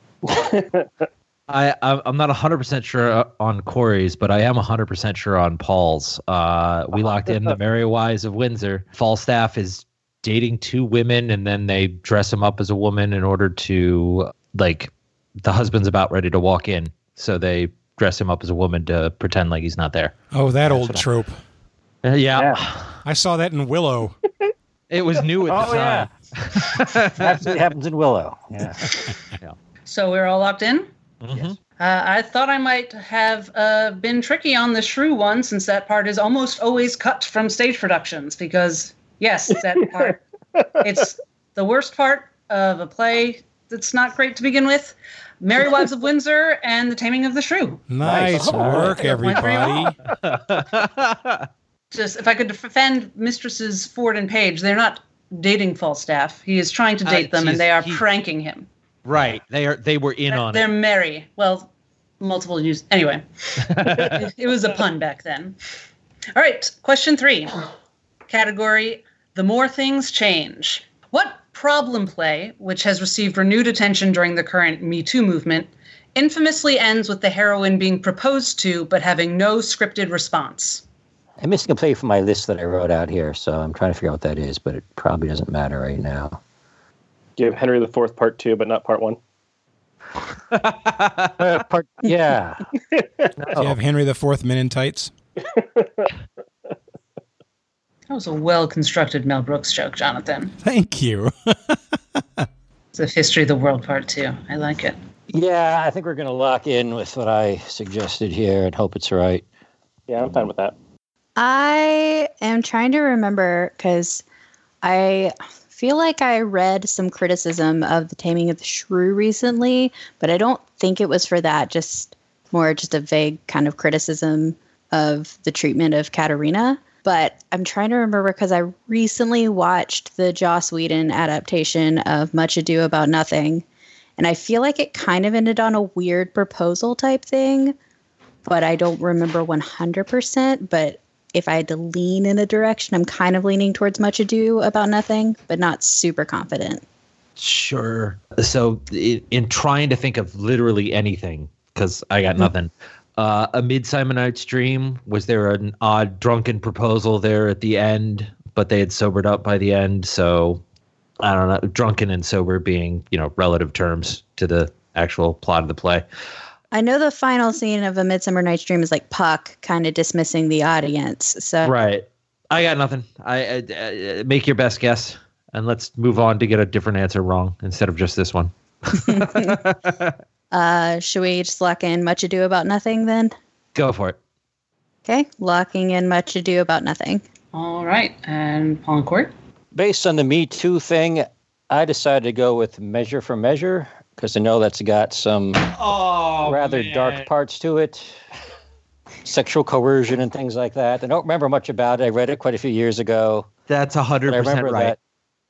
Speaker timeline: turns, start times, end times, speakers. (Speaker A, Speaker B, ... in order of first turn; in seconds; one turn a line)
Speaker A: 0.2-0.9
Speaker B: 1.5-14.9
Speaker B: 15.4-20.1
Speaker C: 20.3-21.4
Speaker D: 20.6-21.0
Speaker B: 22.0-23.0
Speaker C: 23.0-24.1
Speaker B: 24.9-27.4
Speaker D: 25.5-26.1
Speaker D: 27.1-29.1
Speaker E: 29.9-30.9
Speaker B: 31.2-31.5
Speaker E: 31.8-40.2
Speaker A: 40.5-41.0
Speaker E: 40.8-47.9
Speaker C: 47.9-50.0
Speaker D: 48.0-49.0
Speaker A: 48.4-48.9
Speaker E: 49.0-49.9
Speaker B: 50.2-51.5
Speaker E: 51.9-58.7
Speaker B: 57.0-58.0
Speaker B: 59.0-60.7
Speaker E: 60.3-65.5
Speaker B: 63.6-64.2
Speaker E: 66.3-67.6
Speaker E: 68.3-80.8
Speaker D: 81.4-86.4
Speaker A: 87.4-89.2
Speaker B: 90.5-91.3
Speaker D: 91.4-92.6
Speaker A: 92.9-93.2
Speaker C: 93.5-95.1
Speaker A: 95.5-96.1
Speaker E: 98.1-100.5
Speaker C: 100.6-101.8
Speaker E: 102.9-105.0
Speaker D: 105.3-109.4
Speaker A: 110.1-110.7
Speaker F: 111.4-114.2
Speaker F: 114.8-133.6
Speaker F: 134.2-137.8
Speaker F: 138.4-146.8
Speaker B: 147.4-160.6
Speaker B: 161.2-166.0
Speaker F: 166.7-171.7
Speaker B: 171.6-180.1
Speaker F: 179.1-179.5
Speaker F: 180.5-183.3
Speaker B: 183.7-184.2
Speaker F: 185.1-187.2
Speaker E: 187.5-189.3
Speaker D: 189.7-195.7
Speaker B: 195.7-197.3
Speaker D: 196.4-198.2
Speaker D: 199.2-203.5
Speaker B: 203.7-204.9
Speaker D: 204.3-205.0